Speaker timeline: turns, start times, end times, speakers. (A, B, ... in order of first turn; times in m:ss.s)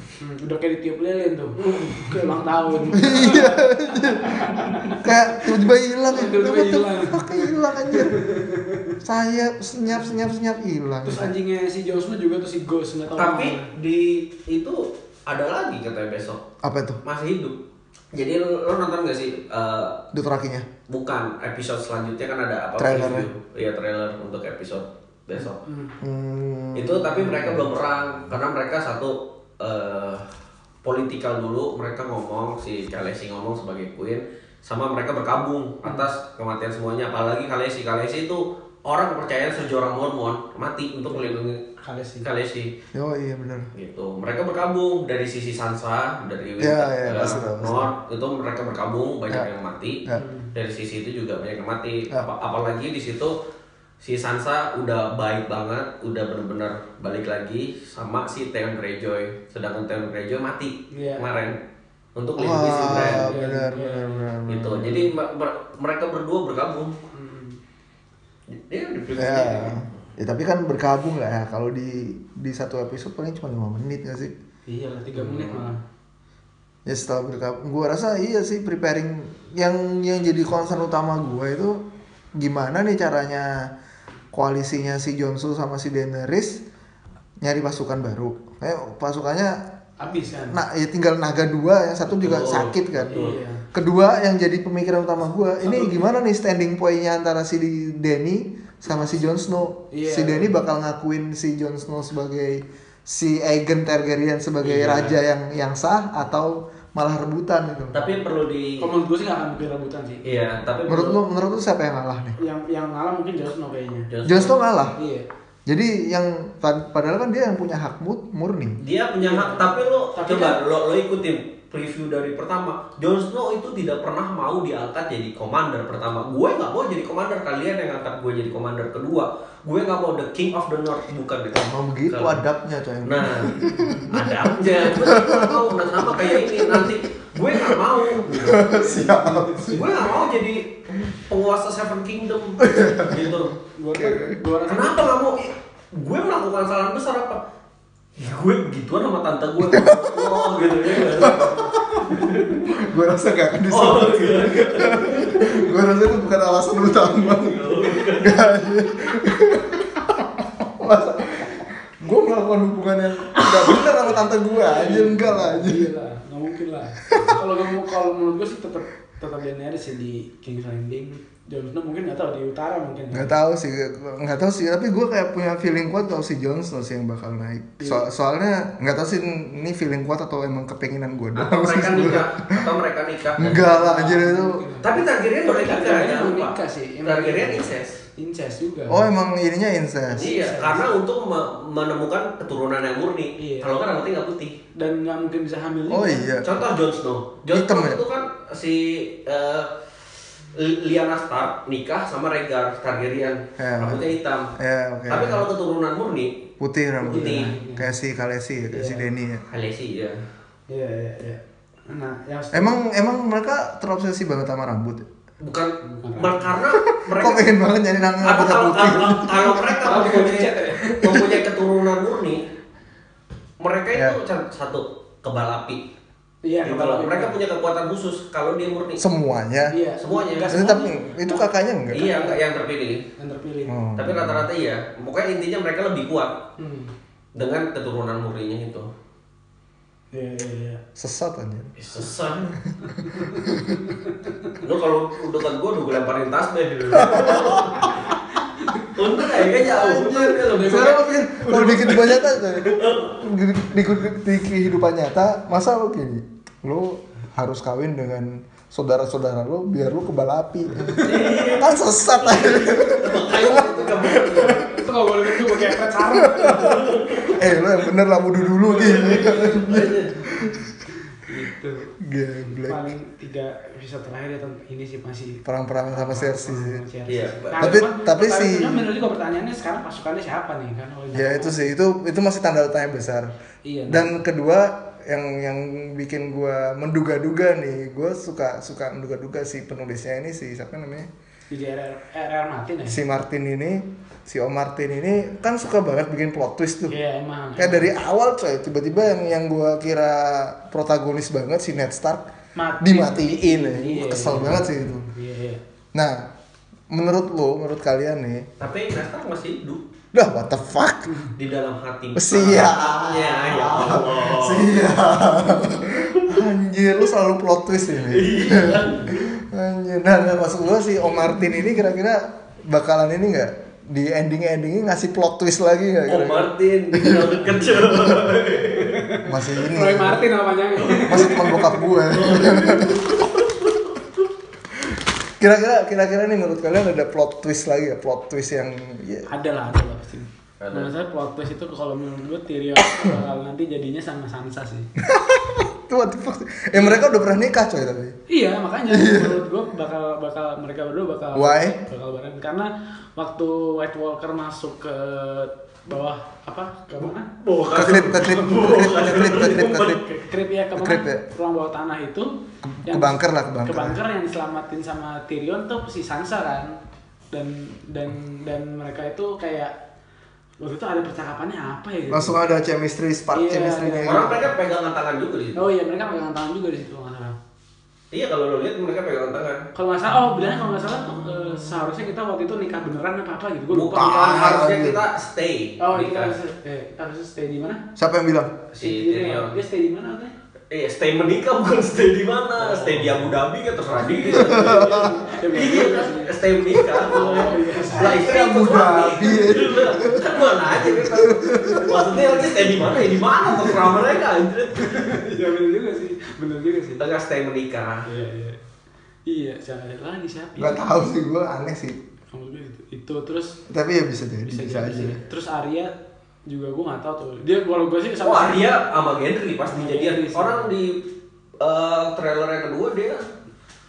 0:00.2-0:09.0 A
0:02.9-0:08.2 B
0:09.0-0:11.3 B
0:09.9-0:10.2 A
0:11.0-0:13.7 A
0:13.2-0:16.4 C
0:16.6-0:17.0 B
0:17.0-0:17.6 C
0:18.1-0:20.1 C
0:20.1-0:20.7 B
0:20.9-0:25.6 C
0:22.8-0:23.3 B
0:25.4-0:26.0 A
0:26.0-0:27.7 B
0:26.8-0:30.3 C
0:30.8-0:41.6 C
0:41.1-0:42.3 A
0:42.2-0:42.7 C
0:42.9-0:43.7 B
0:43.7-0:53.4 C
0:46.6-0:47.9 B
0:50.1-0:50.5 A
0:54.0-1:01.6 C
1:00.9-1:01.2 A
1:02.2-1:03.3 C
1:02.4-1:05.1 B
1:02.8-1:04.4 A
1:04.5-1:07.0 C
1:07.1-1:07.6 A
1:08.5-1:09.9 C
1:09.2-1:14.4 B
1:14.7-1:15.8 A
1:15.2-1:15.7 C
1:16.9-1:21.8 B
1:22.4-1:23.7 B
1:24.3-1:26.6 B
1:27.4-1:29.6 B
1:30.0-1:30.6 A
1:30.4-1:33.2 B
1:32.2-1:33.4 C
1:33.1-1:33.6 A
1:33.7-1:48.0 B
1:35.6-1:36.0 A
1:39.9-1:40.5 A
1:44.6-1:45.2 C
1:47.9-1:48.9 C
1:48.8-1:50.3 A
1:50.2-1:51.2 C
1:50.9-1:52.4 B
1:52.4-1:54.1 A
1:54.1-1:54.6 C
1:54.2-1:55.0 B
1:55.0-1:55.2 A
1:55.7-1:58.8 B
1:58.8-2:12.4 C
1:59.2-2:00.6 A
2:11.5-2:17.0 B
2:13.0-2:18.7 C
2:13.6-2:14.1 A
2:17.5-2:20.3 B
2:18.6-2:19.8 A
2:19.7-2:23.6 C
2:22.6-2:24.4 B
2:23.8-2:25.2 A
2:24.7-2:27.4 C
2:28.2-2:32.7 C
2:29.6-2:45.9 B
2:30.9-2:31.8 A
2:33.7-2:35.6 C
2:37.0-2:38.4 C
2:43.4-2:43.9 A
2:44.5-2:53.3 A
2:47.1-2:47.4 B
2:53.1-3:02.7 B
2:57.8-2:58.0 A
3:01.4-3:03.6 C
3:03.4-3:04.6 B
3:03.4-3:09.0 A
3:04.8-3:08.0 C
3:08.9-3:10.3 B
3:10.1-3:10.9 A
3:10.2-3:14.6 C
3:13.4-3:13.8 A
3:14.7-3:16.3 A
3:15.9-3:16.6 B
3:16.4-3:19.9 C
3:17.5-3:18.0 B
3:20.5-3:24.5 C
3:23.6-3:25.5 B
3:25.1-3:26.5 C
3:26.6-3:29.4 B
3:27.0-3:27.9 A
3:27.1-3:27.5 C
3:28.7-3:29.1 A
3:29.5-3:30.2 C
3:30.7-3:32.8 A
3:32.5-3:35.1 B
3:35.4-3:37.5 C
3:35.8-3:36.6 A
3:36.7-3:39.8 B
3:38.2-3:42.4 C
3:39.8-3:41.3 A
3:41.0-3:41.4 B
3:43.6-3:45.9 C
3:46.4-3:47.4 A
3:46.6-3:49.0 C
3:49.0-3:49.8 B
3:49.7-3:52.4 A
3:50.0-3:50.6 C
3:50.5-3:52.1 B
3:51.9-3:53.1 C
3:53.2-3:53.8 A
3:53.7-3:54.5 B
3:54.0-3:56.4 C
3:56.6-3:56.9 A
3:57.4-3:58.9 C
4:00.1-4:00.8 A
4:01.0-4:01.7 B
4:01.8-4:02.6 C
4:02.6-4:03.9 B
4:02.8-4:04.6 A
4:04.5-4:08.0 C
4:07.0-4:07.9 B
4:07.1-4:12.6 A
4:09.0-4:11.1 C
4:09.7-4:30.6 B
4:12.6-4:13.2 C
4:20.8-4:21.5 A
4:21.0-4:24.7 C
4:23.4-4:27.0 A
4:26.5-4:27.4 C
4:28.5-4:31.9 A
4:28.7-4:30.3 C
4:32.0-4:32.8 B
4:32.5-4:41.6 A
4:35.4-4:36.8 B
4:37.1-4:37.8 C
4:37.6-4:38.9 B
4:41.1-4:43.3 B
4:43.6-4:44.1 A
4:43.9-4:51.1 B
4:51.5-4:53.0 A
4:52.9-4:57.0 B
4:56.9-4:57.9 A
4:57.6-5:02.3 B
5:02.6-5:05.6 A
5:02.8-5:05.1 B
5:05.9-5:06.3 B
5:06.9-5:08.5 B
5:08.6-5:09.8 C
5:10.1-5:11.2 B
5:11.4-5:14.8 C
5:12.2-5:28.4 B
5:15.8-5:16.5 C
5:18.1-5:19.2 C
5:26.1-5:29.1 C
5:28.8-5:31.9 A
5:29.2-5:30.3 B
5:30.8-5:34.3 C
5:31.1-5:33.1 B
5:35.4-5:39.3 B
5:39.3-5:44.9 A
5:40.6-5:40.9 C
5:42.8-5:43.2 B
5:45.0-5:48.2 B
5:46.7-5:47.2 A
5:48.3-5:57.3 A
5:48.9-5:49.4 B
5:51.3-5:51.8 B
5:57.4-6:00.0 C
5:57.7-6:00.0 B
5:58.2-6:06.8 A
6:00.8-6:01.2 B
6:02.6-6:04.0 B
6:07.3-6:09.8 A
6:10.6-6:12.6 A
6:12.1-6:14.5 B
6:13.4-6:14.5 A
6:14.1-6:15.7 C
6:15.6-6:17.4 A
6:18.1-6:19.7 C
6:19.8-6:24.6 A
6:21.2-6:21.6 B
6:23.7-6:26.3 C
6:24.0-6:25.0 B
6:25.8-6:27.8 A
6:28.0-6:28.6 B
6:28.7-6:30.4 A
6:28.8-6:29.6 C
6:30.7-6:45.1 C
6:32.6-6:33.2 A
6:33.8-6:38.2 A
6:34.3-6:35.2 B
6:37.9-6:42.2 B
6:41.5-6:44.1 A
6:44.8-6:47.0 A
6:47.0-6:48.1 C
6:48.1-6:48.6 A
6:49.3-6:50.9 A
6:50.6-6:52.0 B
6:52.3-6:53.6 A
6:53.7-6:55.2 B
6:54.4-6:55.9 A
6:56.5-6:58.7 A
6:58.2-7:01.0 C
6:59.7-7:00.7 A
7:01.6-7:03.3 C